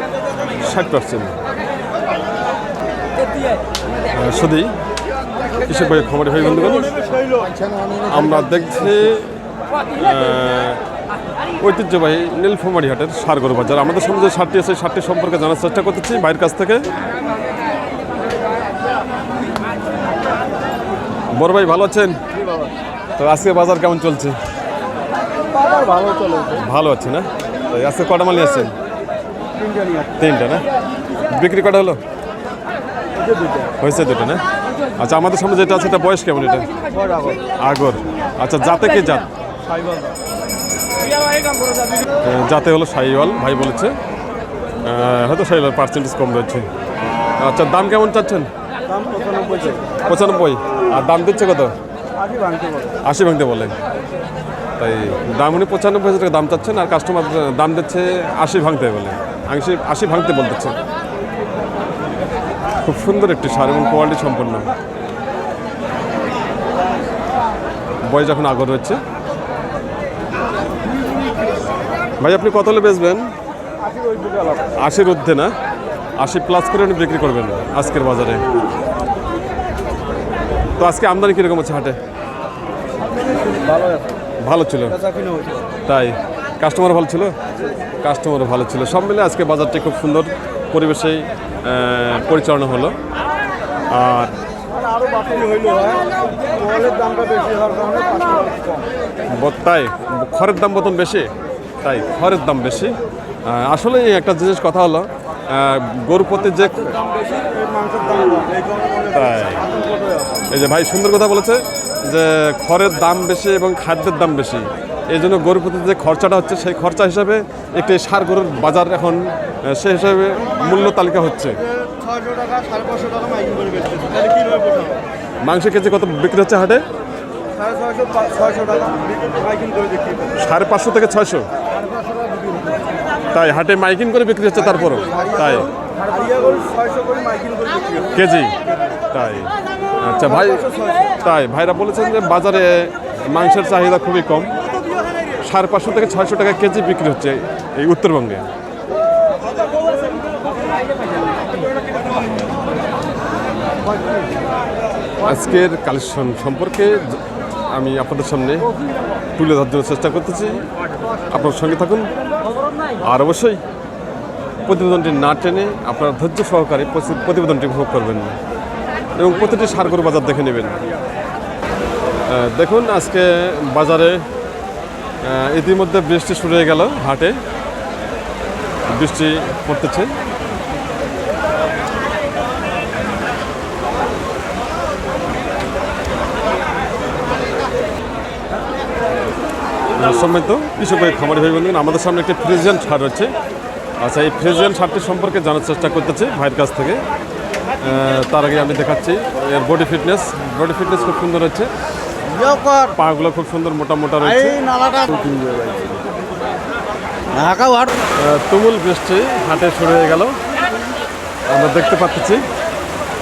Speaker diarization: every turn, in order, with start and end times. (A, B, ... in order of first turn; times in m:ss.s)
0:00.6-0:01.4 A
0:04.1-0:04.7 A
0:05.6-0:06.9 A
0:07.3-0:09.1 B
0:08.1-0:09.3 A
0:10.0-0:10.8 A
0:11.6-0:16.9 A
0:21.3-0:22.2 A
0:23.2-0:24.4 A
0:25.6-0:26.6 B
0:26.5-0:28.7 A
0:29.6-0:30.0 B
0:30.2-0:30.7 A
0:31.3-0:32.0 A
0:33.8-0:34.4 A
0:35.0-0:36.7 A
0:37.0-0:37.4 B
0:37.6-0:39.3 A
0:42.2-0:43.9 A
0:44.8-0:46.7 A
0:47.4-0:48.5 A
0:48.9-0:50.0 B
0:50.0-0:51.7 A
0:52.2-0:52.9 B
0:53.0-0:53.7 A
0:54.8-1:00.7 A
1:02.8-1:04.7 A
1:08.0-1:09.0 A
1:12.2-1:13.3 A
1:14.8-1:15.5 A
1:16.2-1:18.4 A
1:20.8-1:22.0 A
1:24.4-1:25.0 A
1:25.8-1:27.4 A
1:28.0-1:33.0 A
1:33.9-1:34.4 A
1:35.0-1:36.0 B
1:36.5-1:38.8 B
1:39.3-1:41.3 A
1:41.8-1:47.0 A
1:47.5-1:48.6 B
1:49.1-1:49.6 A
1:50.5-2:01.6 A
2:02.6-2:04.1 B
2:05.4-2:06.8 A
2:07.6-2:09.4 B
2:10.4-2:11.4 A
2:13.3-2:15.7 A
2:15.1-2:15.4 B
2:16.1-2:18.0 B
2:18.1-2:18.6 A
2:19.1-2:24.6 A
2:25.4-2:28.4 A
2:35.2-2:38.7 A
2:39.4-2:40.6 A
2:41.3-2:42.1 A
2:43.0-2:43.6 A
2:44.6-2:48.3 A
2:49.2-2:50.8 A
2:52.3-2:54.2 A
2:55.2-2:57.4 A
2:58.9-3:00.1 A
3:09.9-3:13.3 A
3:14.0-3:17.0 A
3:17.8-3:21.7 A
3:22.3-3:22.9 B
3:22.9-3:24.6 A
3:24.2-3:25.9 B
3:27.3-3:28.0 B
3:28.2-3:30.3 A
3:31.5-3:32.4 A